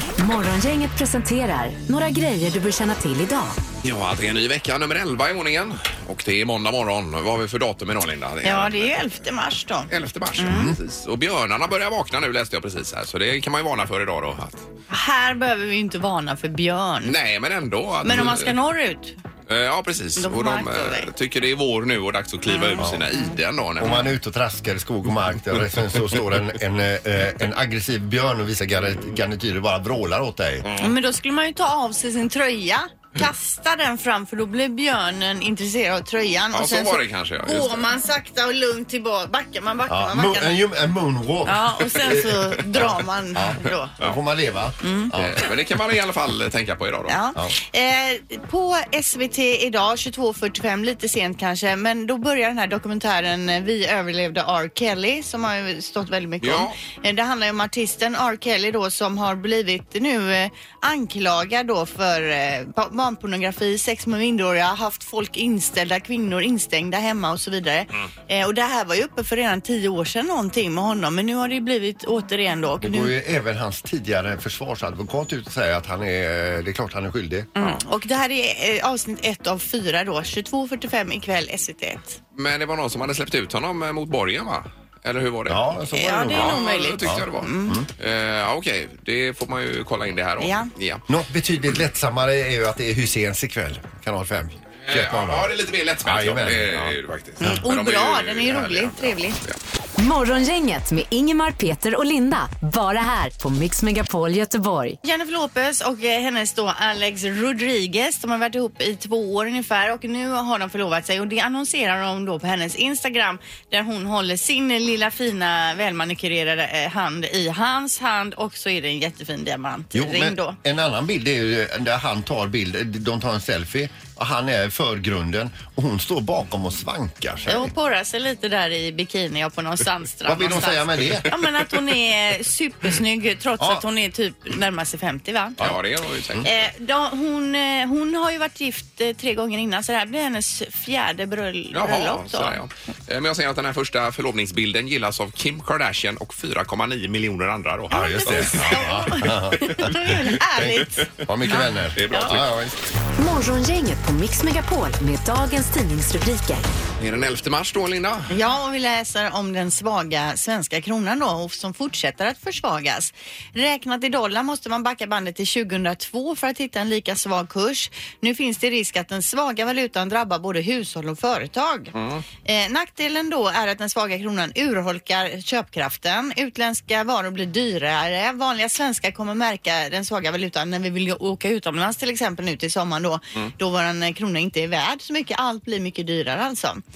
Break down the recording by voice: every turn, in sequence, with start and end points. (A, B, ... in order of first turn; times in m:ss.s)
0:00.2-0:03.6 A
0:03.8-0:09.0 B
0:08.4-0:10.7 C
0:09.9-0:14.7 B
0:10.5-0:10.8 D
0:14.9-0:17.2 C
0:17.0-0:18.5 B
0:18.0-0:19.2 C
0:19.5-0:24.0 B
0:20.2-0:21.1 C
0:22.5-0:23.4 C
0:23.8-0:30.7 D
0:30.6-0:31.0 B
0:30.8-0:40.6 C
0:36.5-0:37.8 B
0:39.9-0:45.4 D
0:41.5-0:43.9 C
0:44.8-0:45.1 C
0:45.2-0:47.2 B
0:47.1-1:13.2 C
0:56.4-0:56.8 B
1:12.8-1:17.5 D
1:17.6-1:22.2 C
1:22.4-1:25.6 B
1:25.5-1:27.9 D
1:25.9-1:27.8 C
1:26.3-1:31.0 B
1:30.4-1:30.7 C
1:31.1-1:37.0 D
1:34.8-1:39.6 B
1:37.4-1:39.4 C
1:40.0-1:45.0 A
1:45.0-2:00.6 C
1:59.9-2:07.7 D
2:07.5-2:15.6 C
2:10.3-2:11.3 D
2:13.6-2:13.8 D
2:15.6-2:16.5 B
2:16.4-2:22.6 C
2:21.7-2:30.2 B
2:27.9-2:32.3 C
2:27.9-2:32.8 D
2:31.9-2:32.6 B
2:33.2-2:36.6 A
2:37.0-2:38.3 B
2:38.3-2:51.9 C
2:51.9-2:52.2 B
2:52.4-3:06.8 C